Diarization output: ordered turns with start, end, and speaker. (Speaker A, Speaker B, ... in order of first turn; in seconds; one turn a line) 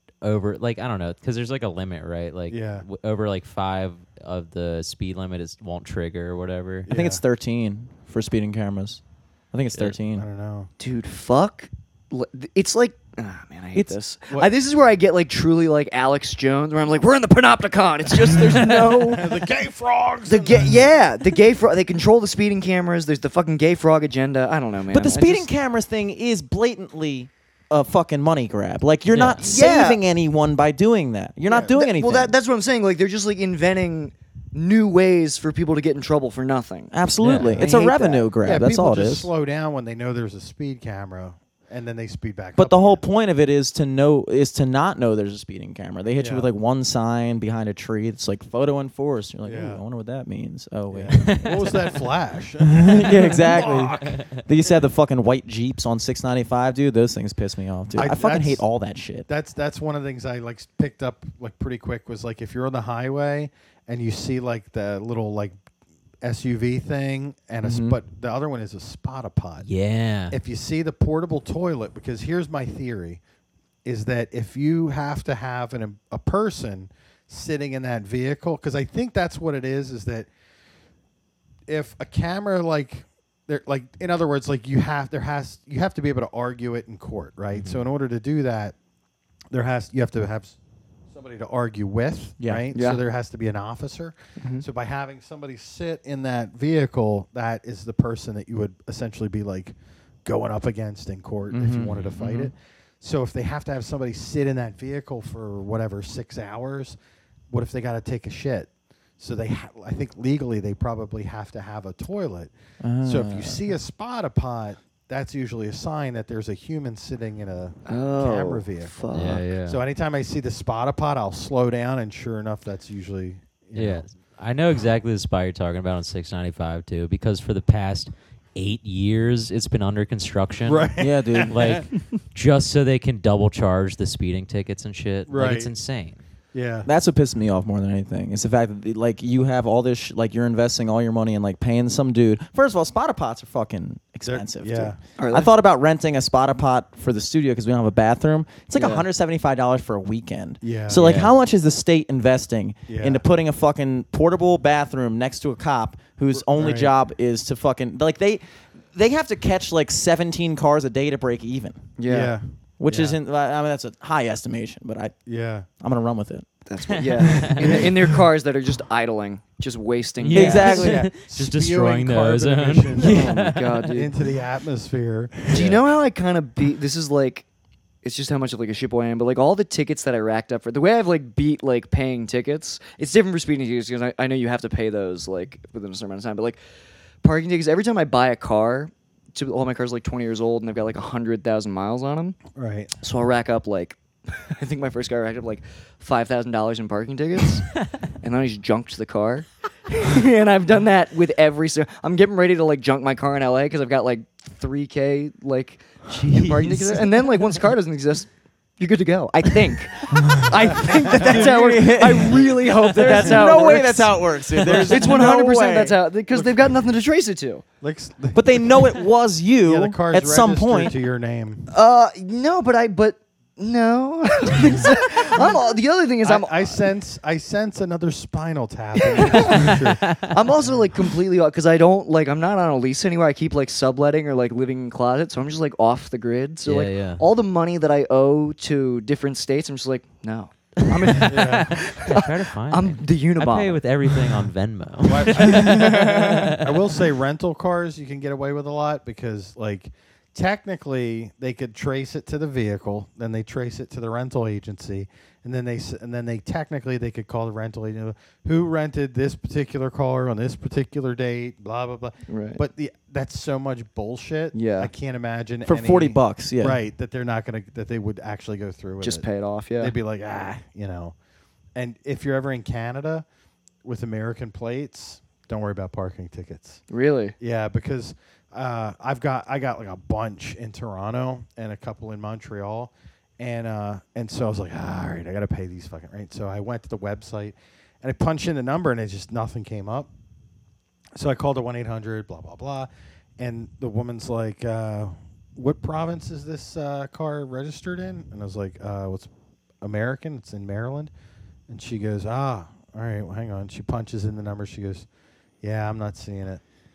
Speaker A: 0.2-6.9
Speaker B: 2.5-2.9
Speaker B: 6.9-7.2
Speaker C: 6.9-9.0
Speaker C: 9.5-10.2
Speaker B: 10.1-10.7
Speaker D: 10.8-19.3
Speaker B: 18.5-20.8
Speaker D: 20.3-25.5
Speaker C: 24.9-32.3
Speaker A: 29.1-29.4
Speaker D: 29.4-30.0
Speaker D: 31.5-36.9
Speaker C: 36.9-39.3
Speaker A: 37.2-37.5
Speaker D: 37.5-38.3
Speaker B: 38.4-43.0
Speaker C: 42.6-51.4
Speaker B: 46.2-46.5
Speaker B: 49.5-49.8
Speaker B: 50.9-54.1
Speaker A: 51.1-52.0
Speaker C: 52.8-59.3
Speaker A: 54.0-54.3
Speaker B: 58.0-58.6
Speaker B: 59.3-65.6
Speaker B: 66.2-69.7
Speaker C: 67.6-68.0
Speaker A: 69.6-70.3
Speaker B: 70.3-73.2
Speaker B: 73.8-80.3
Speaker B: 81.7-88.8
Speaker A: 87.5-87.8
Speaker B: 89.5-90.6
Speaker B: 91.1-99.7
Speaker C: 92.4-92.7
Speaker D: 92.7-93.0
Speaker D: 94.4-94.7
Speaker B: 100.2-107.0
Speaker C: 101.5-102.4
Speaker B: 107.5-112.5
Speaker C: 112.8-113.6
Speaker B: 113.0-124.1
Speaker D: 117.9-119.4
Speaker A: 119.1-119.8
Speaker A: 123.8-130.9
Speaker B: 130.7-131.9
Speaker C: 131.0-131.8
Speaker A: 131.5-136.2
Speaker B: 135.3-135.7
Speaker B: 136.5-136.9
Speaker C: 136.8-158.4
Speaker B: 144.2-145.0
Speaker D: 145.2-145.5
Speaker D: 148.8-149.1
Speaker B: 150.6-151.2
Speaker A: 150.9-151.3
Speaker B: 152.9-153.2
Speaker B: 156.5-156.9
Speaker C: 158.9-161.9
Speaker D: 162.0-162.3
Speaker B: 162.1-163.2
Speaker C: 162.8-165.2
Speaker B: 165.3-165.7
Speaker C: 165.8-166.5
Speaker D: 166.7-170.9
Speaker A: 167.0-167.8
Speaker C: 167.2-167.9
Speaker A: 170.2-173.6
Speaker C: 170.3-171.1
Speaker B: 170.4-173.4
Speaker D: 173.0-174.1
Speaker B: 173.9-175.8
Speaker D: 175.5-177.5
Speaker D: 178.0-186.6
Speaker D: 187.2-192.4
Speaker B: 192.6-192.9
Speaker D: 193.0-217.6
Speaker A: 206.3-207.0
Speaker C: 210.2-216.0
Speaker B: 217.8-219.0
Speaker C: 218.3-220.9
Speaker B: 219.6-221.7
Speaker D: 221.7-226.8
Speaker B: 226.2-230.2
Speaker D: 229.1-243.8
Speaker A: 229.6-230.3
Speaker A: 236.7-237.2
Speaker A: 241.0-246.8
Speaker B: 241.3-241.8
Speaker B: 245.1-269.3
Speaker C: 245.4-246.5
Speaker D: 262.3-262.6
Speaker D: 264.5-264.9
Speaker C: 265.6-266.8
Speaker D: 269.0-269.9
Speaker B: 269.8-271.1
Speaker B: 271.8-273.2
Speaker B: 273.8-276.8
Speaker D: 276.9-277.4
Speaker B: 277.4-290.1
Speaker B: 291.1-299.3
Speaker B: 299.8-301.1
Speaker B: 301.7-305.1
Speaker B: 305.6-306.6